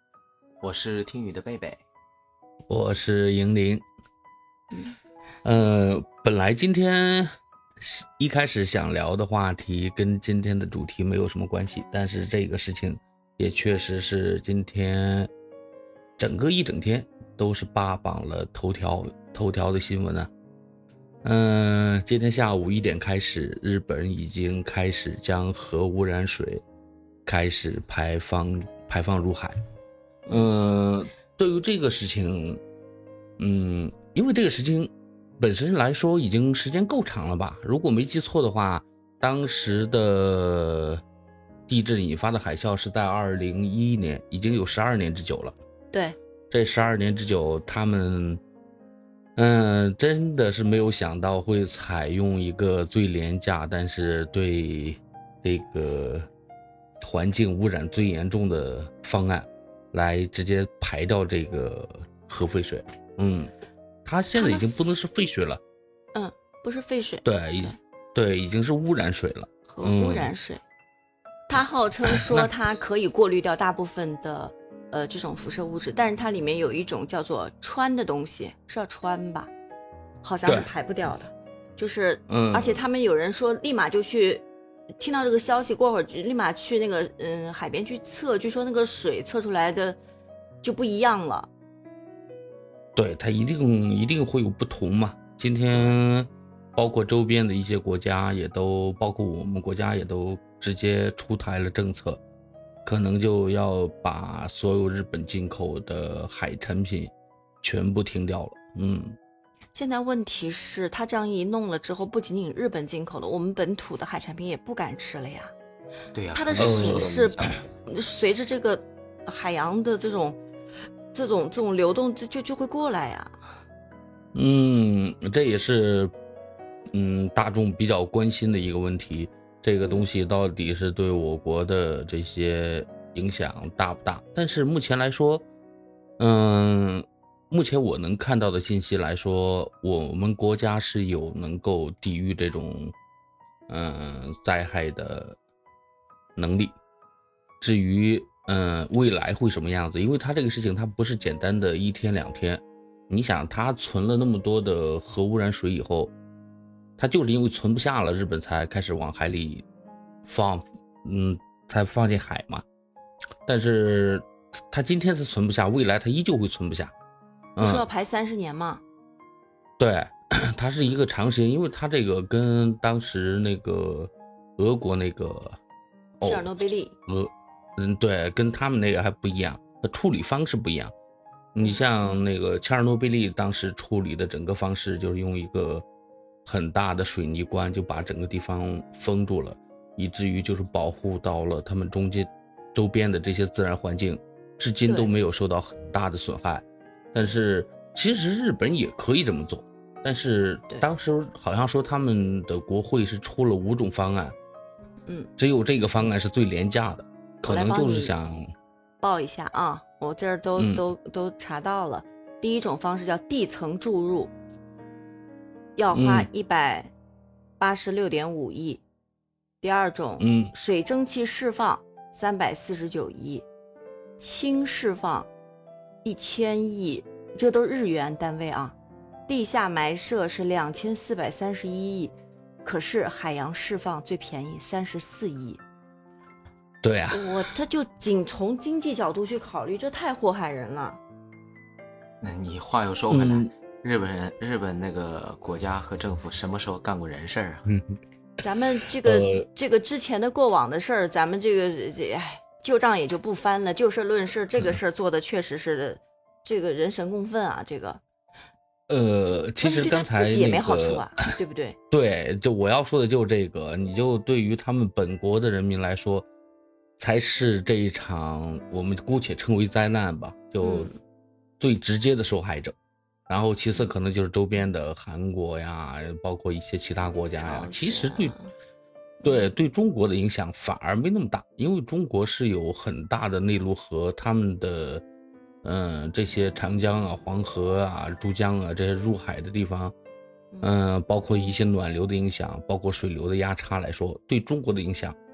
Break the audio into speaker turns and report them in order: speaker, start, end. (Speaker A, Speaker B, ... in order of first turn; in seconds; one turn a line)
Speaker A: 0.6-1.8
Speaker B: 2.7-3.8
Speaker B: 5.4-15.3
Speaker B: 16.2-20.3
Speaker B: 21.2-26.6
Speaker B: 27.3-29.6
Speaker B: 30.3-32.6
Speaker B: 33.4-41.0
Speaker B: 41.7-45.5
Speaker C: 45.9-46.2
Speaker B: 46.5-48.4
Speaker B: 49.4-56.3
Speaker B: 57.0-63.5
Speaker B: 64.1-65.6
Speaker C: 64.3-65.0
Speaker C: 66.1-67.8
Speaker B: 67.2-70.3
Speaker C: 69.7-70.6
Speaker C: 71.5-79.5
Speaker B: 72.2-72.5
Speaker C: 80.2-84.5
Speaker B: 82.3-82.8
Speaker C: 85.0-90.0
Speaker C: 90.6-91.5
Speaker B: 93.0-102.2
Speaker B: 102.8-107.1
Speaker B: 107.6-109.2
Speaker C: 109.8-115.5
Speaker A: 116.1-117.7
Speaker C: 116.3-120.4
Speaker B: 116.6-117.5
Speaker C: 121.1-123.3
Speaker B: 124.3-126.1
Speaker B: 126.9-135.4
Speaker C: 129.8-130.1
Speaker B: 136.2-142.9
Speaker B: 143.7-145.4
Speaker B: 146.4-146.7
Speaker B: 147.6-156.1
Speaker B: 157.0-159.7
Speaker B: 160.3-162.6
Speaker B: 163.5-166.9
Speaker B: 167.6-167.8
Speaker C: 167.6-168.8
Speaker B: 169.8-175.6
Speaker B: 176.2-176.5
Speaker C: 176.2-176.9
Speaker B: 177.1-180.9
Speaker B: 181.6-185.8
Speaker C: 181.6-182.1
Speaker B: 186.4-204.3
Speaker C: 194.8-195.1
Speaker B: 205.4-208.4
Speaker C: 207.4-208.1
Speaker C: 209.0-214.3
Speaker B: 210.6-210.8
Speaker C: 215.8-216.9
Speaker B: 215.9-216.3
Speaker C: 217.6-218.8
Speaker C: 219.6-223.4
Speaker B: 220.2-220.5
Speaker C: 224.2-225.3
Speaker C: 226.0-228.8
Speaker C: 229.3-232.1
Speaker C: 232.6-235.6
Speaker B: 236.8-237.4
Speaker C: 237.1-241.0
Speaker A: 242.2-247.7
Speaker B: 243.1-243.5
Speaker C: 248.4-258.0
Speaker B: 249.0-249.5
Speaker B: 258.9-261.1
Speaker C: 259.6-261.8
Speaker B: 261.9-266.3
Speaker B: 267.0-270.9
Speaker C: 270.6-271.0
Speaker B: 271.6-272.8
Speaker B: 273.3-278.4
Speaker C: 277.4-278.5
Speaker C: 279.2-279.5
Speaker B: 279.2-285.0
Speaker B: 285.6-289.9
Speaker B: 290.6-295.2